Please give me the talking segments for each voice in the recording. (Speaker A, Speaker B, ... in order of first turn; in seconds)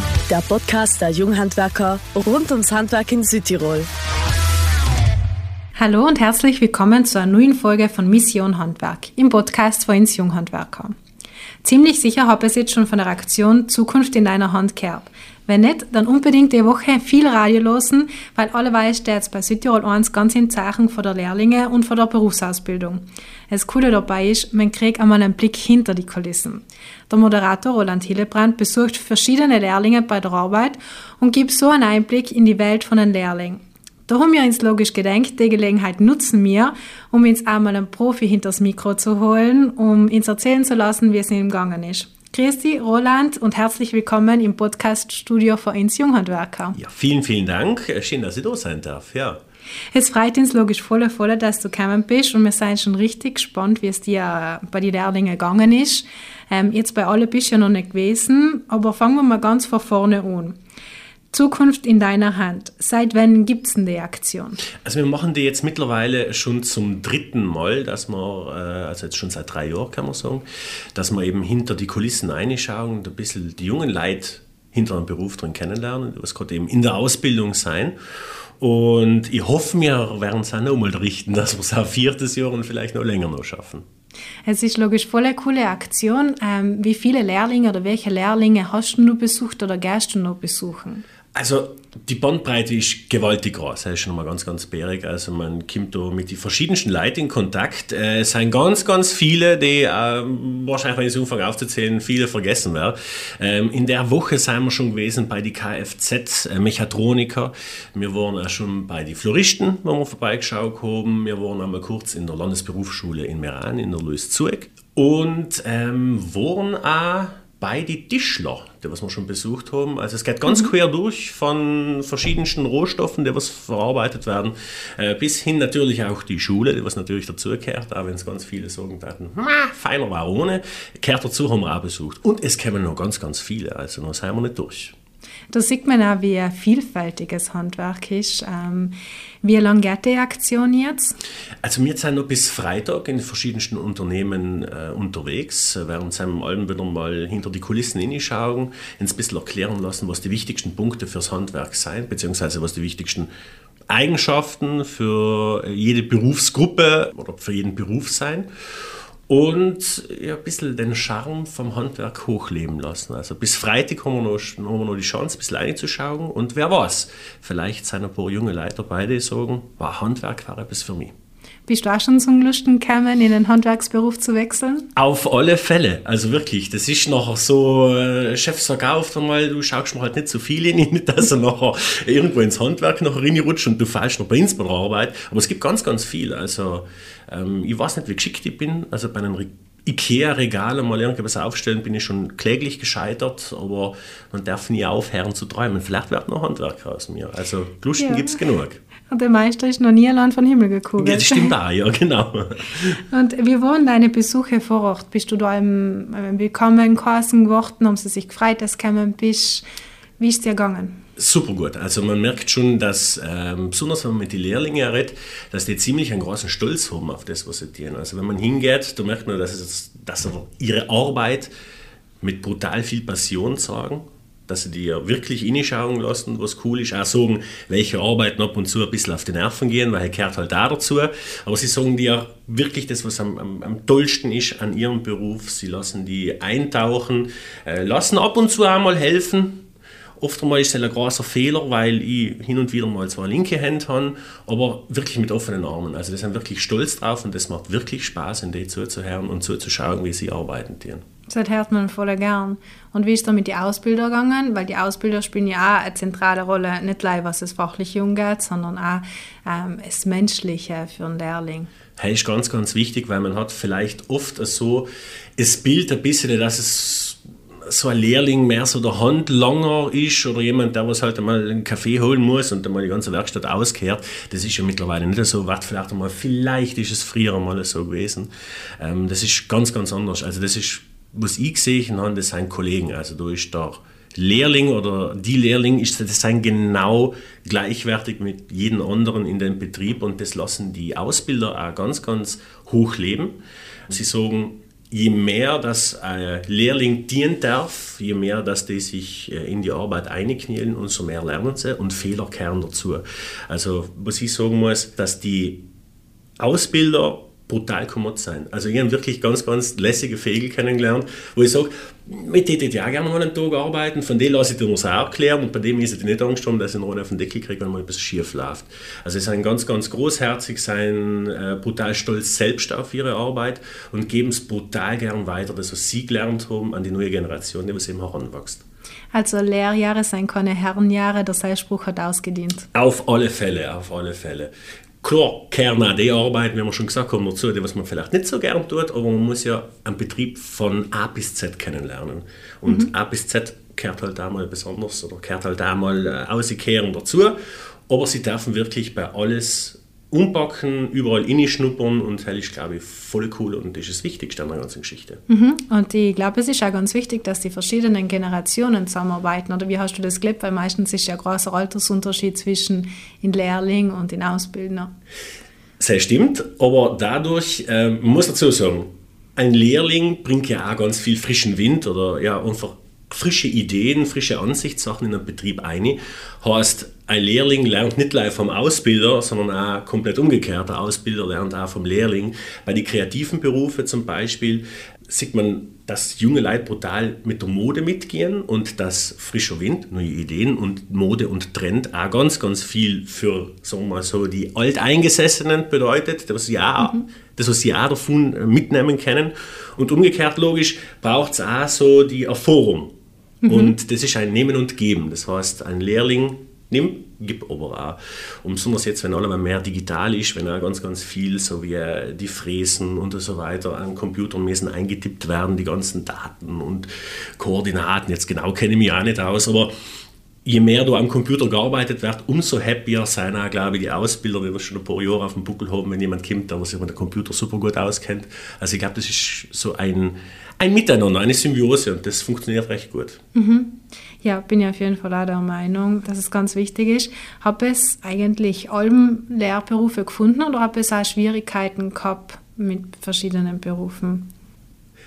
Speaker A: 0.3-3.9
Speaker B: 5.8-10.9, 11.6-46.8, 49.9-60.6, 61.3-64.6, 84.5-91.0, 135.5-141.2, 171.7-174.9, 198.0-198.4, 199.1-201.5, 203.1-209.6, 210.2-211.0, 251.3-261.7, 329.1-332.7, 355.3-364.9, 403.4-403.7, 433.3-444.3
Speaker C: 46.8-49.4, 64.8-77.9, 78.6-83.8, 91.3-134.9, 141.6-153.3, 153.9-171.1, 174.9-198.8, 201.0-203.0, 211.2-221.5, 222.2-239.6, 240.2-251.0, 262.0-293.4, 293.9-305.6, 306.4-328.6, 332.7-347.4, 347.9-355.2, 365.8-402.9, 403.5-419.7, 420.4-433.2